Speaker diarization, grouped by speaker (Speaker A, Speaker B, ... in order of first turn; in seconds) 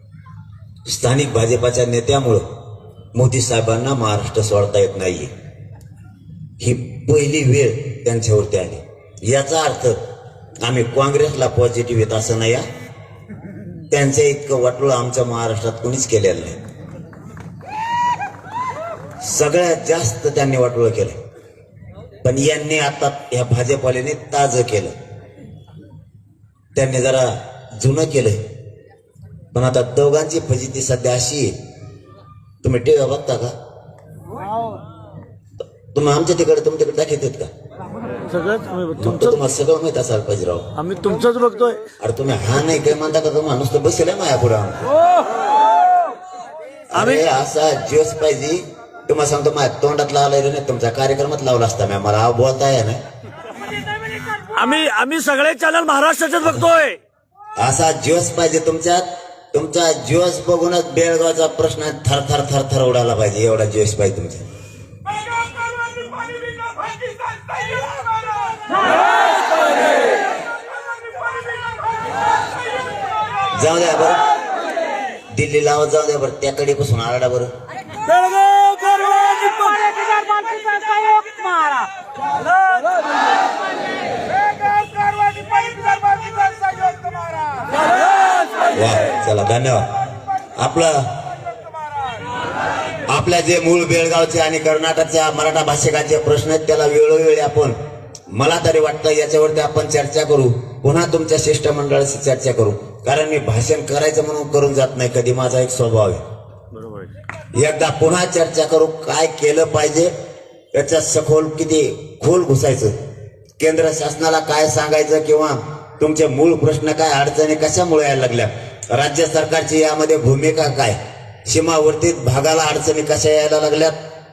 Speaker A: 0.8-2.4, 3.1-5.3, 6.6-10.0, 10.6-12.7, 13.9-16.6, 19.2-21.1, 22.2-24.9, 26.7-28.4, 29.5-31.5, 32.6-33.5, 35.9-37.5, 38.9-40.7, 42.0-44.9, 46.9-53.0, 57.6-64.5, 73.5-74.2, 75.3-77.5, 88.7-89.9, 90.5-91.1, 93.1-97.8, 98.3-106.2, 107.5-110.1, 110.7-112.9, 113.6-124.0
Speaker B: 38.3-39.2, 40.8-41.8, 54.3-57.0, 78.1-81.9, 85.5-86.0